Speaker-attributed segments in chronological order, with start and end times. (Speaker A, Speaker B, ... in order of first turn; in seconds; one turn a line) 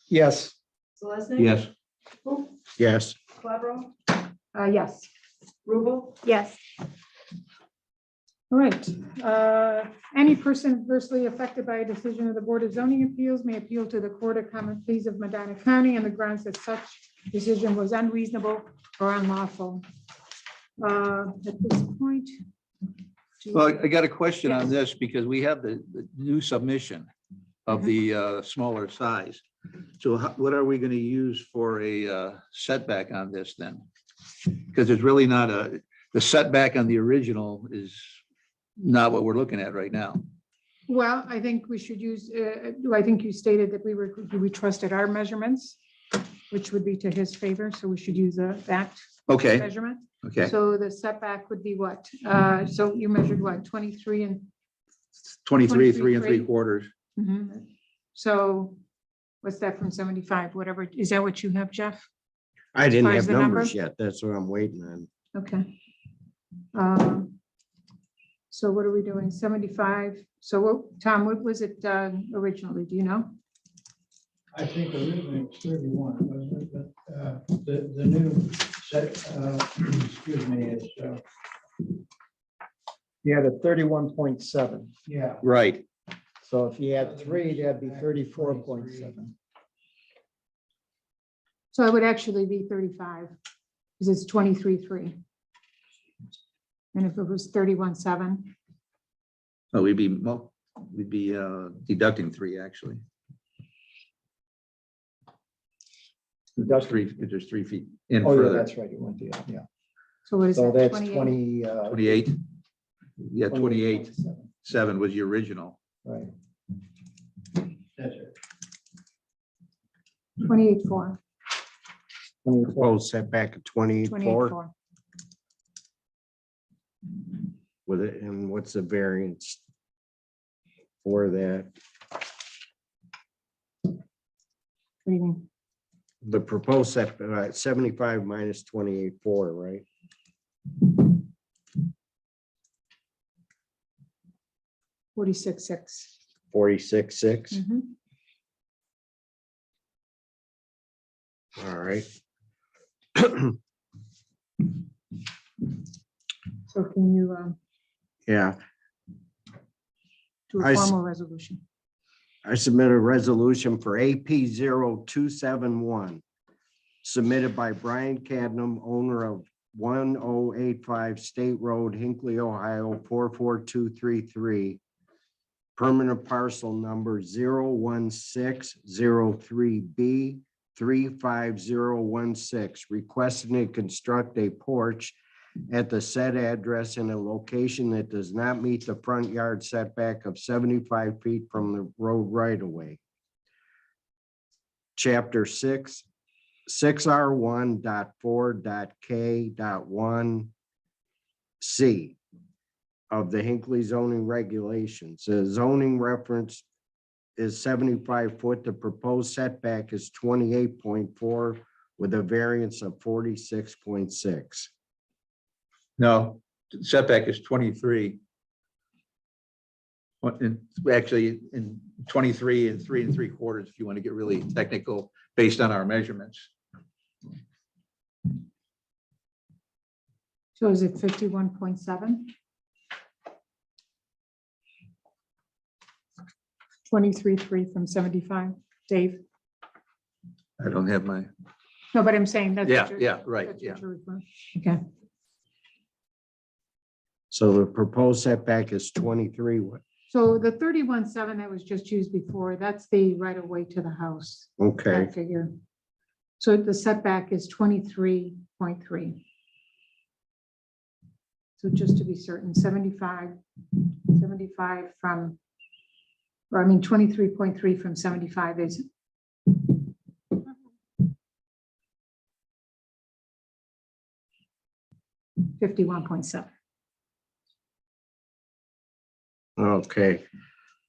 Speaker A: 0.1-0.5
Speaker B: 1.0-1.6
Speaker C: 1.4-1.7
Speaker B: 2.2-2.5
Speaker D: 2.8-3.2
Speaker B: 3.4-3.9
Speaker E: 4.5-5.1
Speaker B: 5.7-6.6
Speaker E: 8.5-19.8
Speaker E: 20.8-22.3
Speaker E: 23.4-23.8
Speaker C: 23.5-27.1
Speaker C: 27.7-29.4
Speaker C: 30.0-33.8
Speaker C: 34.4-38.1
Speaker C: 38.8-40.2
Speaker E: 40.9-45.8
Speaker E: 46.5-54.5
Speaker C: 49.3-49.7
Speaker C: 50.2-50.5
Speaker C: 55.5-56.9
Speaker E: 55.6-56.5
Speaker E: 57.2-58.8
Speaker E: 59.4-62.0
Speaker D: 62.8-65.1
Speaker E: 63.0-63.7
Speaker E: 65.3-65.7
Speaker E: 66.7-67.4
Speaker E: 68.5-73.3
Speaker F: 74.5-81.2
Speaker A: 83.2-84.9
Speaker F: 85.1-85.4
Speaker C: 85.4-85.8
Speaker A: 86.4-89.3
Speaker F: 87.0-89.2
Speaker E: 91.7-93.3
Speaker E: 94.0-95.2
Speaker E: 96.9-98.5
Speaker C: 99.7-103.0
Speaker A: 106.6-107.0
Speaker C: 106.6-108.7
Speaker A: 108.2-109.7
Speaker E: 110.3-111.3
Speaker A: 110.5-112.2
Speaker C: 111.9-112.4
Speaker C: 113.2-114.1
Speaker A: 113.5-114.5
Speaker C: 114.6-115.8
Speaker A: 116.0-116.3
Speaker F: 118.0-118.3
Speaker E: 120.4-121.2
Speaker A: 122.5-122.9
Speaker D: 122.7-124.6
Speaker E: 124.0-124.7
Speaker D: 127.9-129.6
Speaker D: 131.0-131.7
Speaker E: 135.1-135.4
Speaker D: 136.2-139.9
Speaker E: 145.2-146.1
Speaker D: 146.5-147.6
Speaker E: 147.5-147.9
Speaker D: 151.6-152.1
Speaker D: 153.2-153.6
Speaker E: 156.7-157.6
Speaker D: 158.3-158.6
Speaker E: 160.5-161.6
Speaker D: 160.6-160.9
Speaker D: 162.4-166.2
Speaker D: 167.0-174.8
Speaker D: 175.8-185.2
Speaker D: 185.7-193.0
Speaker D: 195.0-196.1
Speaker D: 196.7-200.5
Speaker D: 201.6-202.2
Speaker D: 203.1-206.7
Speaker D: 207.4-214.7
Speaker C: 216.0-218.2
Speaker C: 220.2-226.5
Speaker E: 230.6-232.3
Speaker E: 236.9-239.2
Speaker C: 240.6-241.3
Speaker E: 241.9-244.8
Speaker C: 242.6-243.8
Speaker D: 247.3-249.8
Speaker E: 250.1-255.5
Speaker D: 254.6-255.1
Speaker E: 256.4-259.2
Speaker E: 261.6-265.4
Speaker E: 266.5-268.9
Speaker E: 275.4-276.5
Speaker D: 279.6-280.2